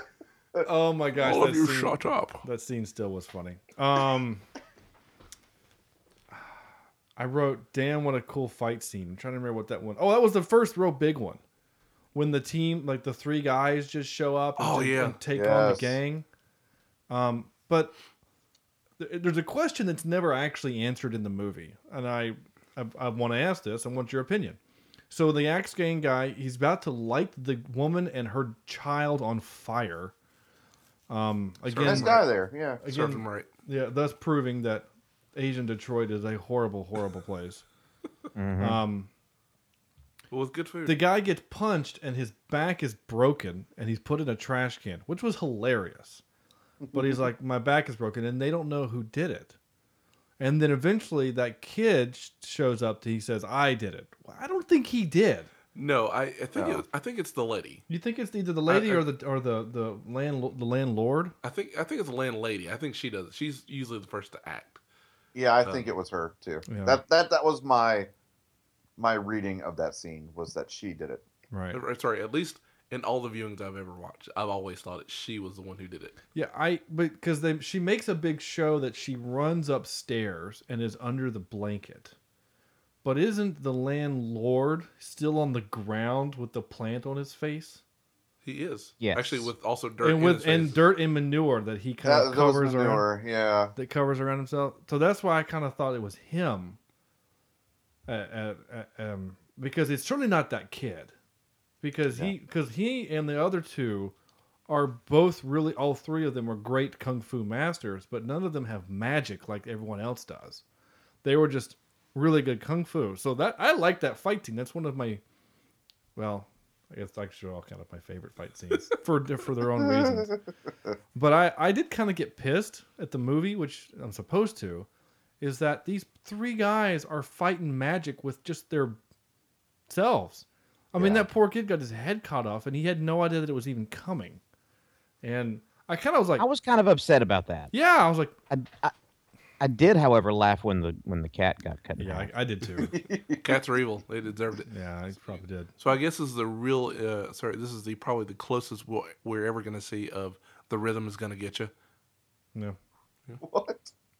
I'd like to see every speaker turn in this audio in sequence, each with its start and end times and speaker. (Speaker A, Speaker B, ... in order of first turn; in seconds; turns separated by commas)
Speaker A: 0.6-4.5, Speaker B: 1.2-2.4, Speaker A: 7.2-11.4, Speaker A: 12.1-16.2, Speaker B: 14.6-15.2, Speaker C: 15.3-16.0, Speaker A: 17.1-17.9, Speaker A: 19.0-24.6, Speaker A: 25.1-30.1, Speaker A: 31.1-32.2, Speaker B: 31.6-32.2, Speaker C: 31.8-32.8, Speaker A: 32.8-37.6, Speaker B: 32.9-33.5, Speaker D: 38.4-38.8, Speaker A: 38.6-39.1, Speaker B: 40.3-41.0, Speaker A: 40.9-46.2, Speaker A: 46.9-49.5, Speaker A: 50.4-55.5, Speaker B: 55.7-57.8, Speaker C: 56.5-56.8, Speaker A: 57.9-61.3, Speaker B: 58.7-59.0, Speaker B: 61.4-64.8, Speaker C: 65.3-68.1, Speaker A: 66.7-67.0, Speaker C: 69.0-71.2, Speaker A: 71.5-71.8, Speaker B: 71.7-76.2, Speaker A: 76.3-82.1, Speaker A: 83.0-87.8, Speaker B: 88.4-90.8, Speaker D: 89.0-89.5, Speaker A: 90.0-93.0, Speaker C: 92.0-93.7, Speaker A: 93.8-96.8, Speaker A: 98.1-101.1, Speaker A: 101.8-104.1, Speaker A: 104.7-110.6, Speaker A: 111.2-115.2, Speaker A: 116.1-120.4, Speaker A: 121.1-124.9, Speaker A: 125.4-129.0, Speaker A: 129.9-134.4, Speaker C: 130.9-131.2, Speaker A: 135.2-136.4, Speaker D: 136.4-137.7, Speaker A: 137.7-138.3, Speaker D: 138.5-138.9, Speaker D: 139.6-142.3, Speaker A: 142.0-142.9, Speaker C: 142.9-143.4, Speaker B: 143.4-144.7, Speaker A: 144.7-145.7, Speaker B: 145.8-151.7, Speaker C: 153.4-153.9